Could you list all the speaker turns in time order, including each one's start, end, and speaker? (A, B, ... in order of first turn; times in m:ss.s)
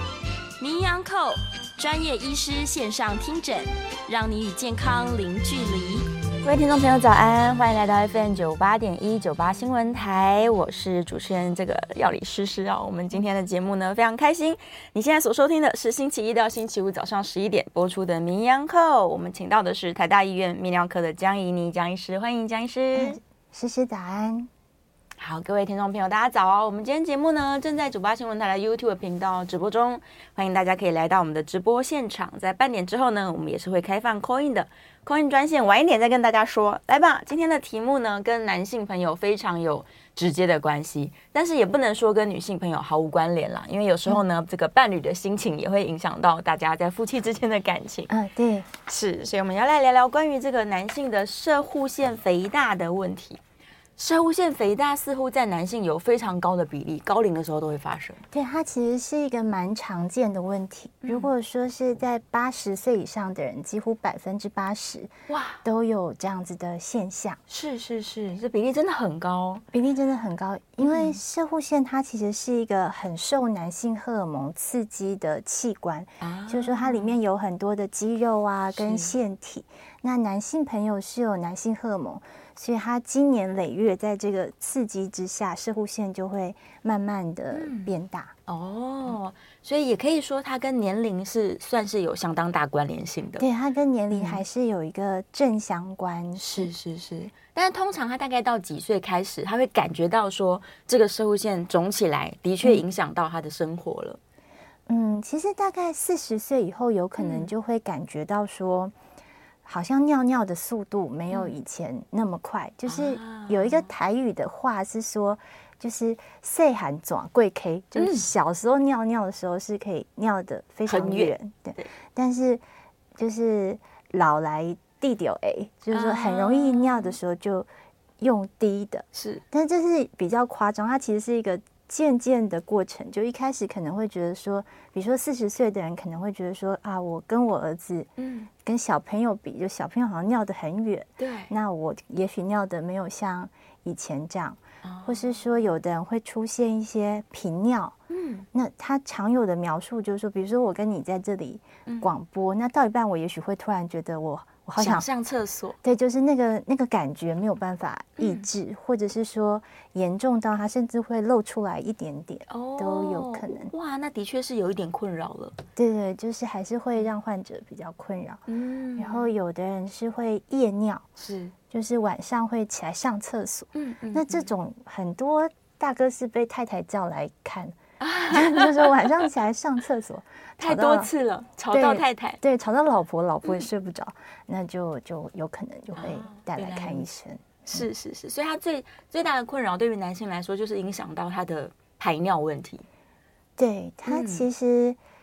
0:00.6-0:06.1 A
0:06.4-0:23.2 B
0:22.9-0:24.5 C
0:25.2-0:48.1 B
0:48.1-0:48.7 C
0:48.8-0:53.4 B
0:54.0-0:58.2 B
0:58.3-1:05.1 C
1:01.0-1:01.3 B
1:05.3-1:05.6 B
1:05.6-1:07.4 C
1:07.5-1:09.6 B
1:09.7-1:28.3 C
1:10.8-1:11.2 B
1:16.2-1:17.1 B
1:18.7-1:19.1 B
1:27.5-1:27.9 B
1:28.5-1:33.4 B
1:33.4-1:36.7 C
1:34.1-1:34.4 B
1:36.4-1:44.2 B
1:44.9-1:48.9 C
1:47.2-1:47.5 B
1:49.6-2:02.6 C
1:52.9-1:53.9 B
1:58.0-1:58.3 B
2:00.8-2:01.9 B
2:03.2-2:07.7 C
2:05.9-2:07.1 B
2:08.2-2:18.1 C
2:09.1-2:09.4 B
2:18.2-2:18.5 B
2:18.6-2:28.0 C
2:21.2-2:21.5 B
2:24.8-2:25.4 B
2:28.1-2:28.4 B
2:28.5-2:35.0 C
2:34.8-2:35.8 B
2:35.8-2:43.7 C
2:38.2-2:38.5 B
2:42.5-2:45.6 B
2:45.8-2:48.4 C
2:48.5-2:49.3 B
2:49.0-2:51.1 C
2:51.2-2:51.5 B
2:51.7-2:57.8 C
2:53.7-2:54.5 B
2:58.0-2:59.2 B
2:58.3-3:01.1 C
3:00.6-3:02.4 B
3:01.7-3:07.8 C
3:05.9-3:07.0 B
3:07.6-3:12.8 B
3:13.6-3:15.0 C
3:14.1-3:14.4 B